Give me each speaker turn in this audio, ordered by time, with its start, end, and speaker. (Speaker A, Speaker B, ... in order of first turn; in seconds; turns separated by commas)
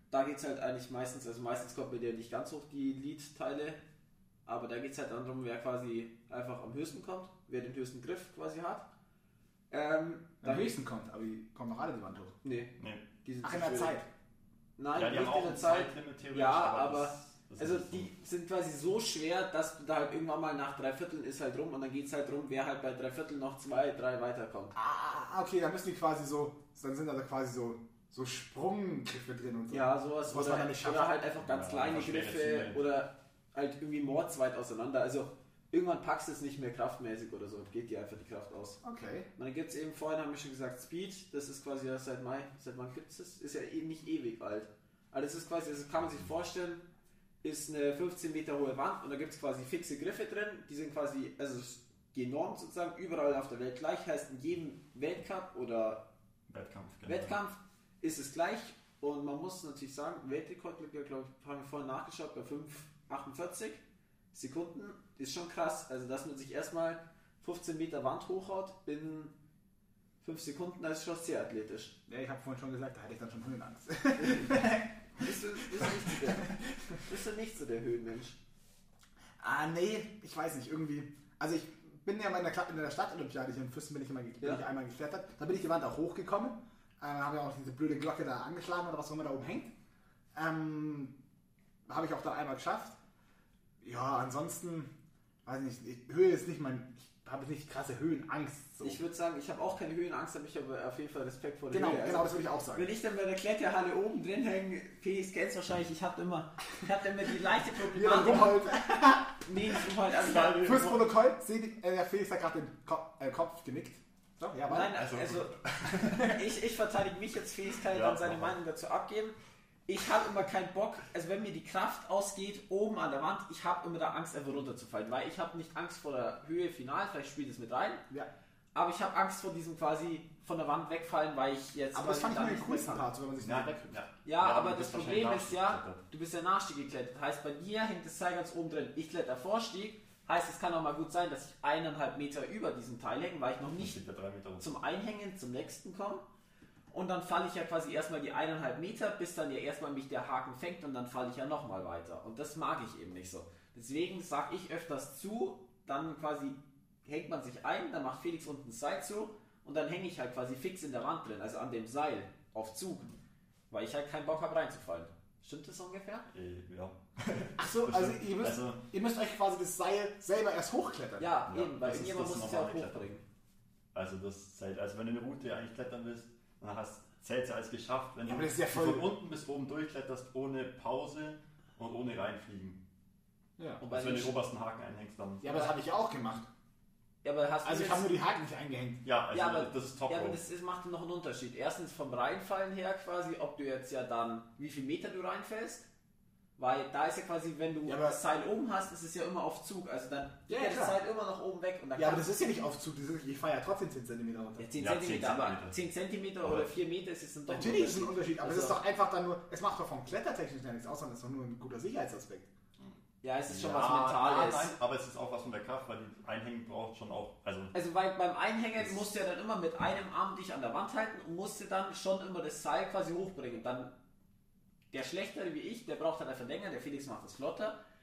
Speaker A: 0.1-3.8, Speaker A: 4.5-8.8, Speaker A: 9.7-10.7, Speaker B: 10.4-12.3, Speaker A: 12.4-12.7, Speaker C: 12.8-13.1, Speaker A: 13.2-14.0, Speaker B: 13.4-14.1, Speaker A: 14.8-24.7, Speaker C: 14.9-18.1, Speaker B: 24.7-31.2, Speaker A: 29.7-38.8, Speaker C: 31.4-32.8, Speaker B: 38.8-39.3, Speaker A: 39.4-46.8, Speaker A: 47.4-56.0, Speaker C: 56.5-57.4, Speaker A: 57.0-63.8, Speaker A: 64.3-69.3, Speaker A: 70.2-71.9, Speaker B: 72.1-77.0, Speaker A: 74.2-74.6, Speaker A: 75.2-78.4, Speaker B: 79.4-89.7, Speaker B: 90.3-91.1, Speaker B: 91.9-93.0, Speaker B: 93.8-94.9, Speaker B: 95.4-99.0, Speaker A: 98.8-108.6, Speaker B: 101.7-102.8, Speaker B: 107.9-109.9, Speaker A: 109.4-111.0, Speaker C: 110.3-110.9, Speaker B: 110.5-114.9, Speaker A: 114.7-115.5, Speaker C: 114.9-116.4, Speaker A: 116.1-119.3, Speaker C: 117.9-118.5, Speaker A: 119.9-128.0, Speaker A: 128.7-133.0, Speaker B: 131.9-134.0, Speaker C: 133.4-136.0, Speaker A: 134.2-144.0, Speaker C: 143.6-144.7, Speaker A: 144.6-146.2, Speaker A: 146.9-163.1, Speaker A: 163.7-166.3, Speaker C: 166.3-168.8, Speaker B: 167.6-171.3, Speaker A: 171.2-173.2, Speaker C: 171.5-173.0, Speaker C: 173.9-182.8, Speaker B: 178.2-179.1, Speaker A: 183.8-184.3, Speaker C: 183.9-185.6, Speaker B: 185.4-186.5, Speaker A: 187.2-188.1, Speaker B: 187.6-189.0, Speaker C: 189.0-190.4, Speaker A: 189.3-195.9, Speaker A: 196.6-202.2, Speaker B: 197.8-198.2, Speaker B: 200.5-201.0, Speaker B: 201.9-204.7, Speaker A: 204.6-208.8, Speaker C: 204.8-205.8, Speaker C: 206.4-206.7, Speaker B: 207.5-212.5, Speaker A: 213.2-214.7, Speaker C: 213.5-217.7, Speaker A: 217.7-223.9, Speaker A: 224.9-227.8